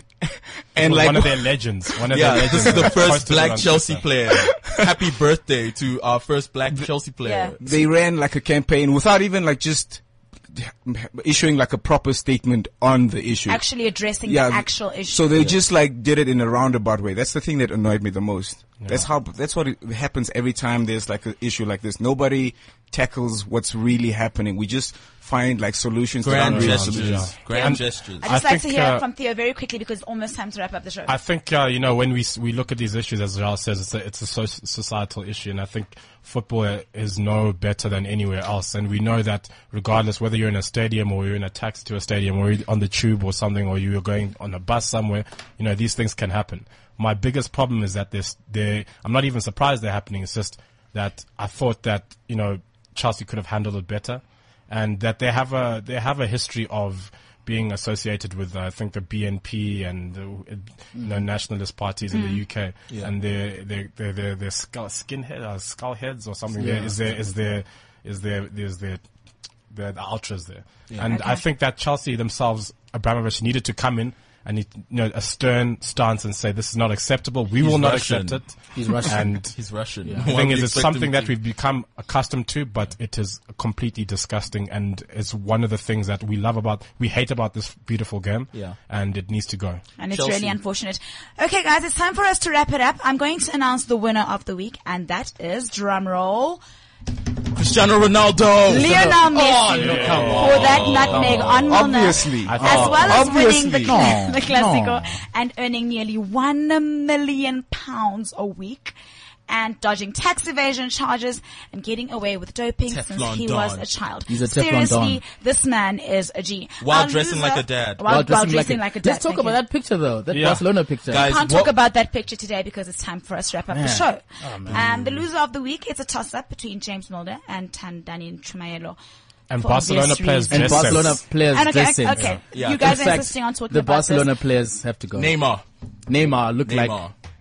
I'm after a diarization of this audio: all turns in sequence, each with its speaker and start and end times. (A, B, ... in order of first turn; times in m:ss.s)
0:00.2-0:01.5 A
0:00.8-0:04.3 B
0:02.1-0:07.6 C
0:02.1-0:02.8 A
0:04.4-0:05.0 A
0:07.2-0:07.5 D
0:07.6-0:13.6 A
0:13.5-0:15.3 D
0:14.2-0:27.3 A
0:26.2-0:28.2 C
0:26.4-0:29.0 B
0:27.5-0:31.1 D
0:31.1-1:09.0 B
1:01.0-1:01.2 E
1:02.1-1:02.4 D
1:06.5-1:07.0 E
1:09.7-1:19.6 B
1:11.1-1:11.4 D
1:17.6-1:18.5 C
1:18.7-1:19.4 E
1:19.6-1:21.3 C
1:20.2-1:29.8 B
1:28.5-1:28.8 C
1:30.0-1:36.6 D
1:30.1-1:30.6 C
1:37.5-1:39.2 C
1:38.6-1:48.9 D
1:38.7-1:41.4 E
1:39.7-1:41.5 B
1:39.9-1:41.8 C
1:41.7-1:44.2 A
1:42.4-1:43.3 B
1:42.5-1:45.2 E
1:49.5-1:59.6 D
1:52.9-1:53.9 C
1:54.3-1:55.2 E
1:56.8-1:58.0 C
1:58.0-2:01.3 E
2:00.3-2:00.6 B
2:01.1-2:01.8 C
2:01.1-2:09.0 D
2:03.7-2:05.3 E
2:09.5-2:11.3 B
2:09.6-2:14.3 D
2:10.5-2:15.4 E
2:12.5-2:13.2 C
2:15.2-2:15.6 C
2:16.1-2:17.0 E
2:16.6-2:17.1 C